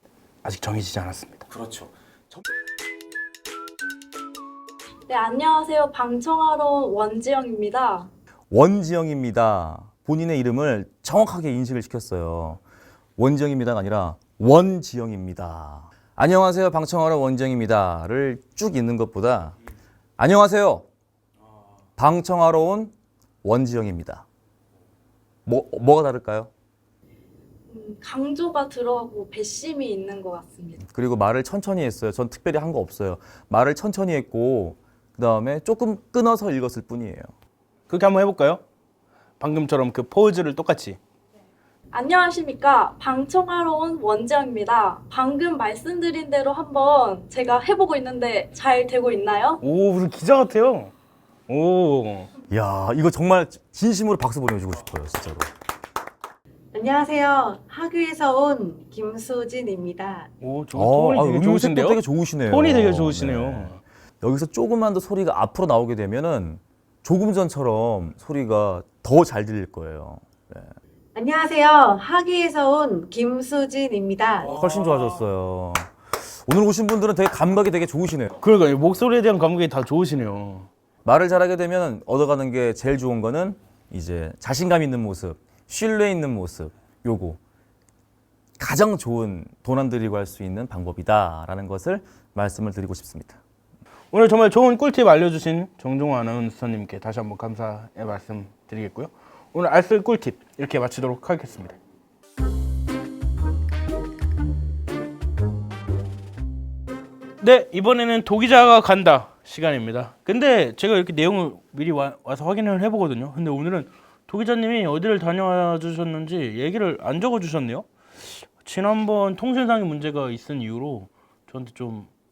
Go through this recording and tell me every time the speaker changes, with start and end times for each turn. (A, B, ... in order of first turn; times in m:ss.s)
0:00.4-0:01.8 A
0:05.1-0:08.1 B
0:08.5-0:12.6 C
0:13.2-0:19.6 C
0:20.2-0:20.8 C
0:22.0-0:22.9 C
0:23.4-0:24.2 C
0:25.4-0:26.5 C
0:27.7-0:30.8 B
0:30.8-0:37.3 C
0:37.9-0:38.6 A
0:39.4-0:41.0 A
0:41.9-0:49.6 B
0:49.6-0:50.9 A
0:51.5-0:52.3 A
0:52.5-0:55.4 C
0:56.7-1:00.3 D
1:00.4-1:03.8 A
1:00.7-1:10.7 C
1:11.1-1:14.4 D
1:14.4-1:18.3 C
1:18.4-1:20.7 A
1:21.0-1:27.4 C
1:28.6-1:33.4 C
1:34.1-1:41.8 A
1:47.4-2:02.1 A